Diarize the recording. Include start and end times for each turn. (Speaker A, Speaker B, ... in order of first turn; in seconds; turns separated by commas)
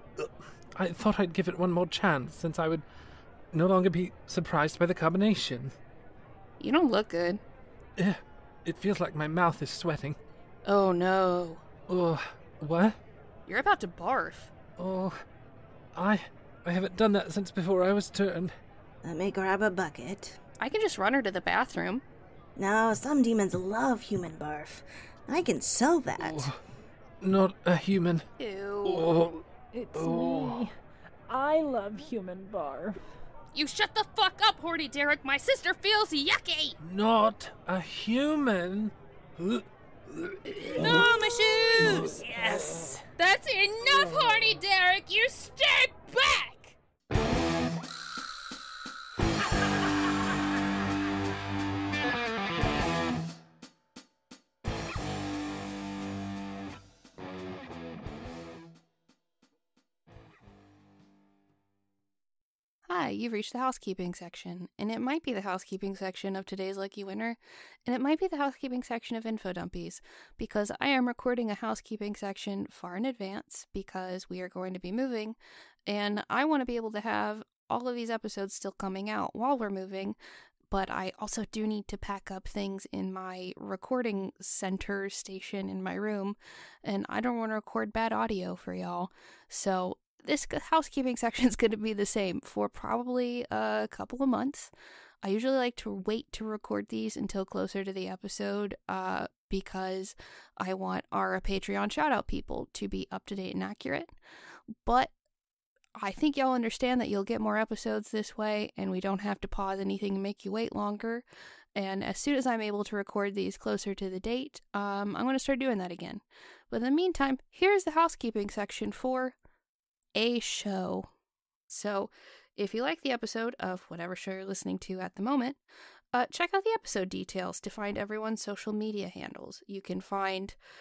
Speaker A: 0.2-2.9, Speaker A: 3.5-5.8, Speaker B: 6.6-7.4, Speaker A: 8.0-10.2, Speaker B: 10.7-11.6, Speaker A: 11.9-13.0, Speaker B: 13.5-14.5, Speaker A: 14.8-15.2, Speaker A: 15.9-18.5, Speaker C: 19.0-20.4, Speaker B: 20.6-22.0, Speaker C: 22.6-26.5, Speaker A: 26.2-26.6, Speaker A: 27.2-28.3, Speaker B: 28.4-29.1, Speaker A: 28.9-30.6, Speaker D: 29.7-30.7, Speaker D: 31.3-33.0, Speaker B: 33.5-36.8, Speaker A: 36.8-43.0, Speaker B: 40.8-42.1, Speaker D: 42.1-43.0, Speaker B: 43.2-46.8, Speaker B: 62.9-80.2, Speaker B: 80.7-94.7, Speaker B: 95.2-104.1, Speaker B: 104.8-105.1, Speaker B: 106.0-111.2, Speaker B: 111.8-119.4, Speaker B: 120.1-121.1, Speaker B: 121.7-125.6, Speaker B: 126.1-130.6